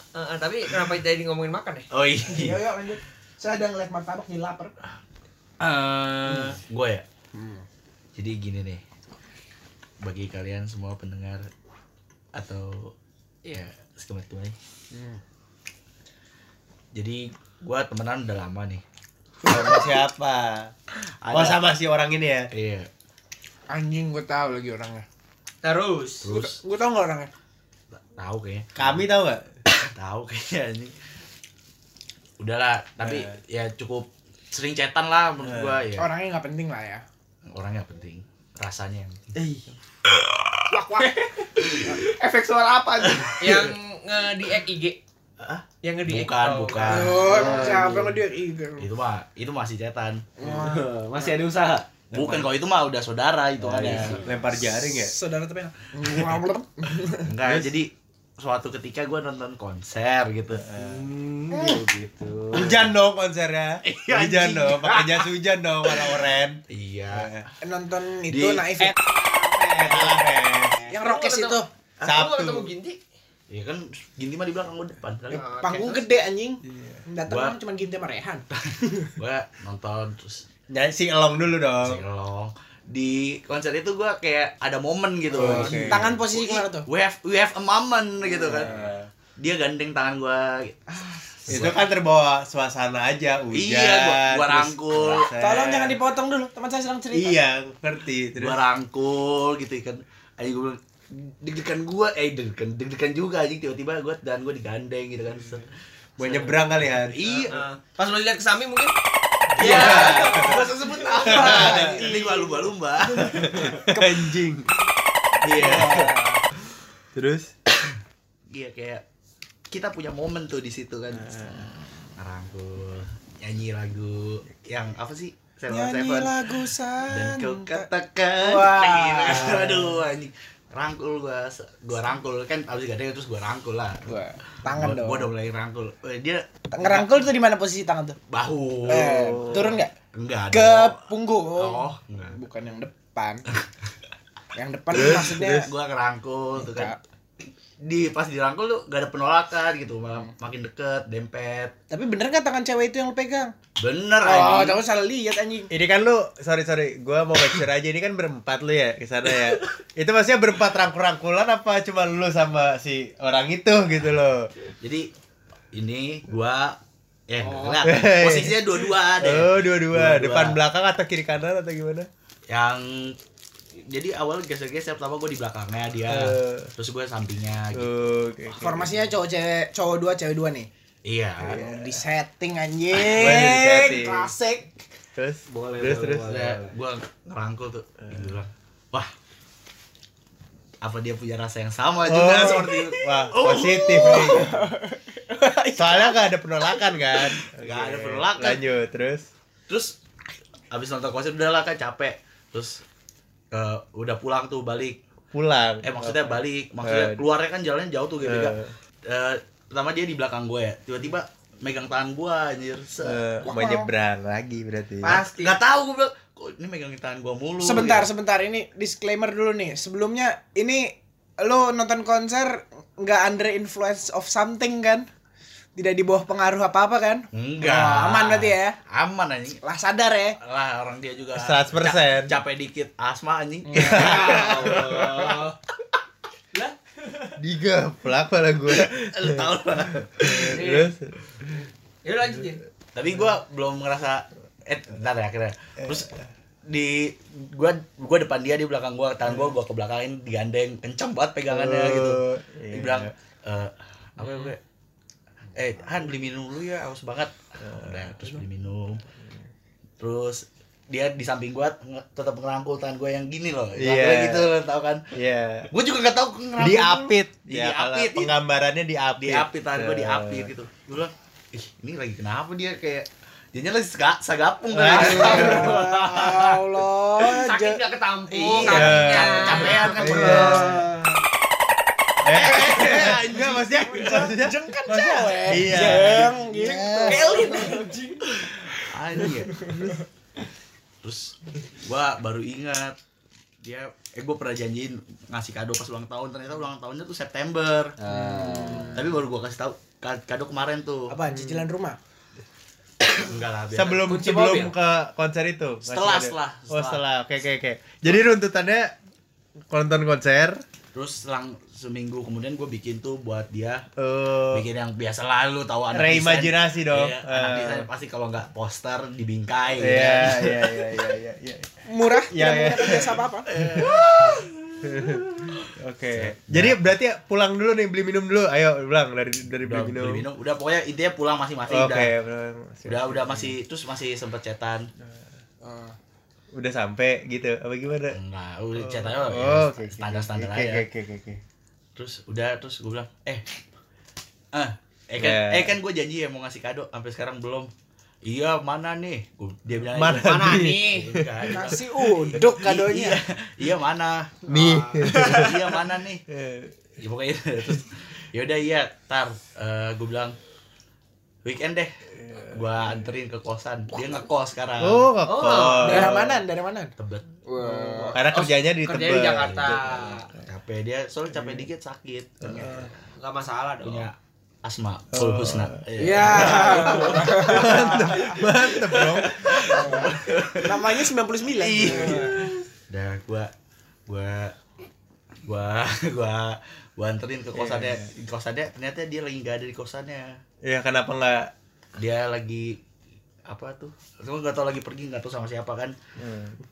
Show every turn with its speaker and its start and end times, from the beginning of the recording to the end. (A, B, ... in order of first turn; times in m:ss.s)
0:00.1-0:01.9 A
0:01.9-0:02.6 B
0:02.2-0:04.8 C
0:05.6-0:07.0 B
0:06.2-0:06.6 C
0:07.3-0:07.6 C
0:08.2-0:08.8 B
0:10.0-0:11.5 B
0:12.3-0:12.9 B
0:13.4-0:14.6 B
0:14.9-0:15.2 C
0:16.9-0:18.8 B
0:19.4-0:20.7 D
0:21.2-0:21.6 B
0:21.3-0:22.5 D
0:22.5-0:22.9 B
0:23.7-0:25.0 C
0:25.6-0:26.3 A
0:26.2-0:26.6 B
0:26.3-0:27.3 C
0:27.9-0:29.0 B
0:28.8-0:29.5 D
0:29.7-0:31.0 B
0:32.4-0:36.1 B
0:33.0-0:33.3 D
0:35.4-0:35.8 D
0:36.0-0:37.0 C
0:37.5-0:39.3 B
0:39.3-0:39.7 D
0:40.1-0:40.6 B
0:40.7-0:41.2 C
0:41.6-0:42.0 B
0:41.8-0:43.3 C
0:43.0-0:43.6 B
0:43.4-0:45.0 A
0:45.4-0:47.8 B
0:45.8-0:47.2 A
0:46.8-0:48.9 C
0:47.2-0:48.2 E
0:48.8-0:50.3 B
0:50.4-0:51.3 C
0:50.4-0:52.5 E
0:52.1-0:54.2 B
0:53.6-0:54.4 E
0:53.8-0:57.3 C
0:54.2-0:55.1 D
0:56.1-0:56.3 B
0:57.2-1:00.7 B
0:57.4-0:57.7 D
1:00.6-1:01.0 D
1:00.7-1:02.9 E
1:01.5-1:01.8 C
1:02.5-1:06.6 D
1:03.8-1:05.3 B
1:05.8-1:06.2 B
1:06.7-1:07.4 B
1:07.1-1:07.4 D
1:07.6-1:08.9 C
1:08.3-1:08.7 B
1:08.8-1:13.0 A
1:09.8-1:10.8 D
1:10.9-1:11.7 C
1:12.0-1:12.7 D
1:13.5-1:15.4 B
1:15.3-1:16.0 A
1:15.6-1:19.1 C
1:16.7-1:17.0 D
1:17.3-1:17.6 B
1:18.6-1:20.4 B
1:20.7-1:22.0 D
1:21.8-1:28.7 B
1:25.3-1:26.9 C
1:25.3-1:26.0 D
1:28.4-1:28.7 C
1:28.4-1:29.1 D
1:29.4-1:30.9 B
1:30.9-1:31.8 C
1:31.4-1:31.9 B
1:31.5-1:36.0 D
1:33.5-1:35.3 B
1:35.3-1:37.4 C
1:37.1-1:38.6 D
1:38.4-1:47.6 B
1:46.2-1:47.5 D
1:47.5-1:49.0 A
1:49.6-1:53.7 B
1:49.6-1:50.7 A
1:49.6-1:50.6 D
1:49.6-1:54.3 C
1:51.2-1:52.0 D
1:53.3-1:54.7 D
1:55.4-1:56.2 B
1:55.5-1:56.0 D
1:55.5-1:56.4 C
1:57.1-1:57.5 D
1:58.5-1:59.0 B
1:59.7-2:06.5 B
2:01.2-2:01.7 D
2:05.7-2:07.9 C
2:07.0-2:14.1 B
2:08.4-2:09.9 C
2:14.0-2:15.3 C
2:14.6-2:17.3 B
2:16.7-2:18.2 C
2:18.3-2:22.4 B
2:18.8-2:19.9 C
2:19.1-2:19.8 D
2:20.5-2:23.4 C
2:24.5-2:25.7 C
2:24.9-2:25.7 D
2:25.0-2:27.0 B
2:26.6-2:27.0 C
2:27.8-2:31.7 B
2:31.9-2:33.5 C
2:33.8-2:34.8 B
2:34.2-2:35.7 C
2:35.7-2:44.5 D
2:44.8-2:45.1 B
2:45.7-2:50.6 B
2:47.8-2:48.6 D
2:49.2-2:52.1 D
2:52.5-2:53.2 B
2:53.8-2:57.9 B
2:56.1-2:56.7 D
2:57.7-2:58.9 D
2:58.6-3:00.7 C
3:01.0-3:01.6 B
3:01.4-3:04.7 C
3:01.4-3:02.0 D
3:03.0-3:03.4 B
3:03.0-3:04.3 D
3:05.2-3:06.4 D
3:05.5-3:06.7 E
3:06.2-3:09.1 B
3:08.1-3:08.3 D
3:10.8-3:14.5 B
3:12.0-3:14.6 D
3:14.0-3:16.8 C
3:15.7-3:19.3 D
3:17.6-3:18.6 B
3:19.7-3:20.0 B
3:20.7-3:22.8 B
3:23.5-3:25.0 B
3:25.3-3:27.2 D
3:25.8-3:33.2 B
3:28.2-3:28.7 D
3:33.0-3:35.2 D
3:33.4-3:33.9 C
3:35.0-3:35.6 A
3:35.0-3:38.1 B
3:37.6-3:45.1 C
3:45.8-3:48.8 C
3:47.3-3:49.6 B
3:49.6-3:50.4 C
3:50.4-3:55.4 B
3:51.3-3:52.4 D
3:53.7-3:55.3 C
3:53.9-3:55.5 A
3:56.5-3:57.3 A
3:57.4-4:01.1 D
3:58.7-4:00.6 B
4:00.4-4:00.9 A
4:02.0-4:02.6 A
4:02.9-4:06.1 B
4:06.7-4:14.6 B
4:11.5-4:13.1 D
4:15.5-4:19.0 B
4:17.6-4:18.0 D
4:20.0-4:25.0 B
4:23.8-4:24.5 D
4:25.1-4:25.7 D
4:25.7-4:28.3 B
4:26.6-4:30.5 D
4:29.2-4:36.6 B
4:34.7-4:35.8 D
4:34.9-4:37.8 C
4:34.9-4:35.7 A
4:37.2-4:40.0 A
4:38.3-4:40.8 B
4:38.6-4:40.9 D
4:40.0-4:41.2 C
4:42.2-4:47.4 D
4:42.3-4:44.3 B
4:42.5-4:50.0 C
4:45.6-4:46.3 B
4:47.1-4:48.1 A
4:48.4-4:49.9 B
4:51.0-4:53.0 B
4:53.6-4:57.9 B
4:58.0-4:59.0 E
4:58.1-4:58.9 C
4:58.5-5:01.2 B
5:01.1-5:02.0 C
5:01.3-5:01.6 D
5:03.0-5:04.1 B
5:03.7-5:08.9 D
5:04.1-5:04.7 A
5:05.8-5:07.0 B
5:09.7-5:10.6 D
5:10.9-5:13.8 B
5:14.0-5:14.6 D
5:14.5-5:20.8 B
5:15.9-5:17.9 D
5:19.8-5:24.0 D
5:21.8-5:23.5 C
5:23.4-5:26.8 B
5:24.8-5:30.2 D
5:29.6-5:32.1 B
5:31.7-5:33.6 D
5:32.8-5:34.9 B
5:35.6-5:36.0 C
5:36.5-5:38.2 D
5:38.1-5:40.8 B
5:38.8-5:41.4 D
5:42.0-5:43.4 B
5:44.5-5:47.7 B
5:45.2-5:45.8 D
5:48.2-5:56.2 B
5:49.9-5:51.8 D
5:50.1-5:51.1 A
5:51.5-5:53.2 C
5:54.5-5:55.7 D
5:54.5-5:55.5 A
5:56.3-5:56.8 D
5:57.0-6:00.4 B
6:01.4-6:05.1 B
6:02.2-6:02.5 D
6:04.8-6:06.4 D
6:05.2-6:06.1 A
6:05.8-6:06.9 C
6:07.0-6:07.3 B
6:07.4-6:08.2 C
6:07.9-6:10.3 A
6:08.1-6:10.4 D
6:09.4-6:09.8 B
6:10.4-6:12.9 B
6:11.4-6:11.6 D
6:12.4-6:12.9 D
6:13.1-6:14.1 A
6:13.8-6:23.5 B
6:15.1-6:16.6 D
6:16.0-6:18.4 C
6:16.6-6:17.2 A
6:17.4-6:20.0 D
6:19.6-6:22.5 C
6:22.1-6:22.4 D
6:24.1-6:24.6 B
6:25.4-6:30.4 B
6:27.5-6:28.1 D
6:30.6-6:31.5 D
6:32.0-6:32.8 B
6:33.5-6:36.0 B
6:36.2-6:36.6 D